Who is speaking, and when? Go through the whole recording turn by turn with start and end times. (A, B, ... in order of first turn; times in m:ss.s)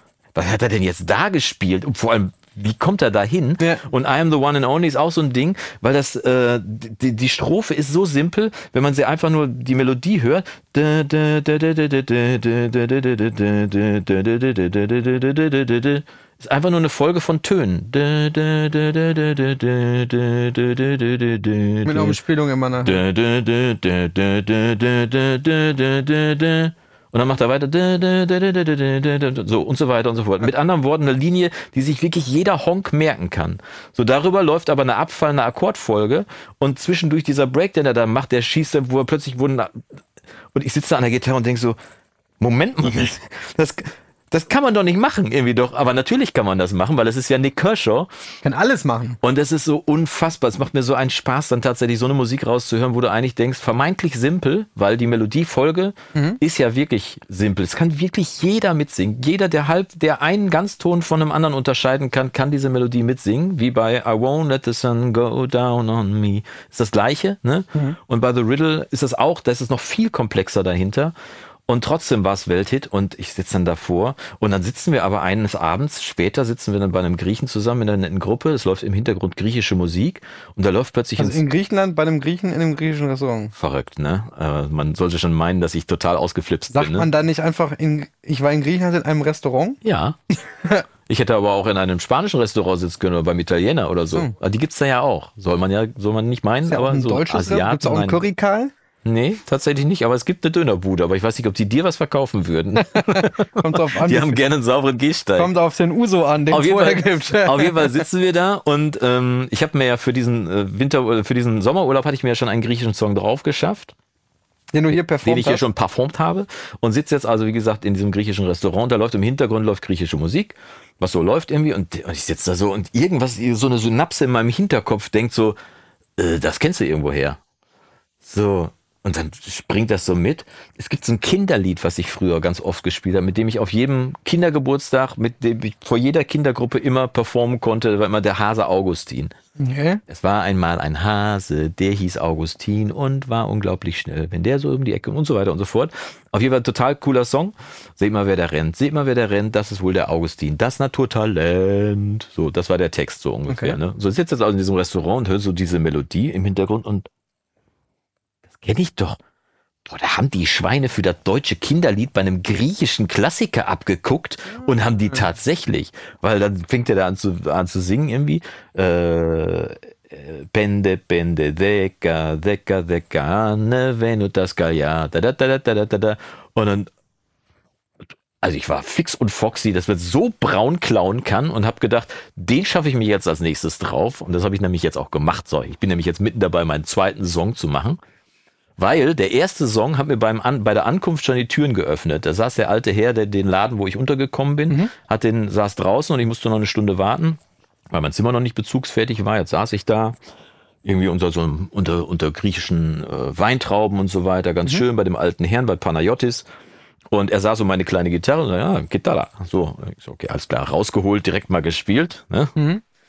0:00.3-0:22.2 A
0:21.8-0:23.0 B
0:22.8-0:39.8 A
0:40.5-0:41.8 A
0:42.4-0:43.2 A
0:44.3-0:48.1 A
0:48.4-0:49.2 B
0:49.2-1:11.1 A
0:56.1-0:56.4 B
1:11.7-1:21.4 A
1:21.2-1:23.5 B
1:23.6-1:27.1 A
1:26.7-1:29.8 B
1:29.8-1:30.2 A
1:31.1-1:38.2 A
1:36.7-1:38.7 B
1:39.0-1:45.5 A
1:42.8-1:44.4 B
1:45.4-1:48.0 B
1:46.5-1:53.9 A
1:54.7-1:55.6 B
1:55.2-2:05.6 A
2:06.2-2:07.4 A
2:08.2-2:19.3 A
2:19.6-2:20.0 B
2:20.1-2:37.1 A
2:33.5-2:33.8 B
2:38.6-2:39.2 A
2:39.8-2:56.9 A
2:58.4-3:08.0 A
3:08.8-3:20.2 A
3:20.8-3:26.5 A
3:27.1-3:32.5 A
3:32.6-3:32.8 B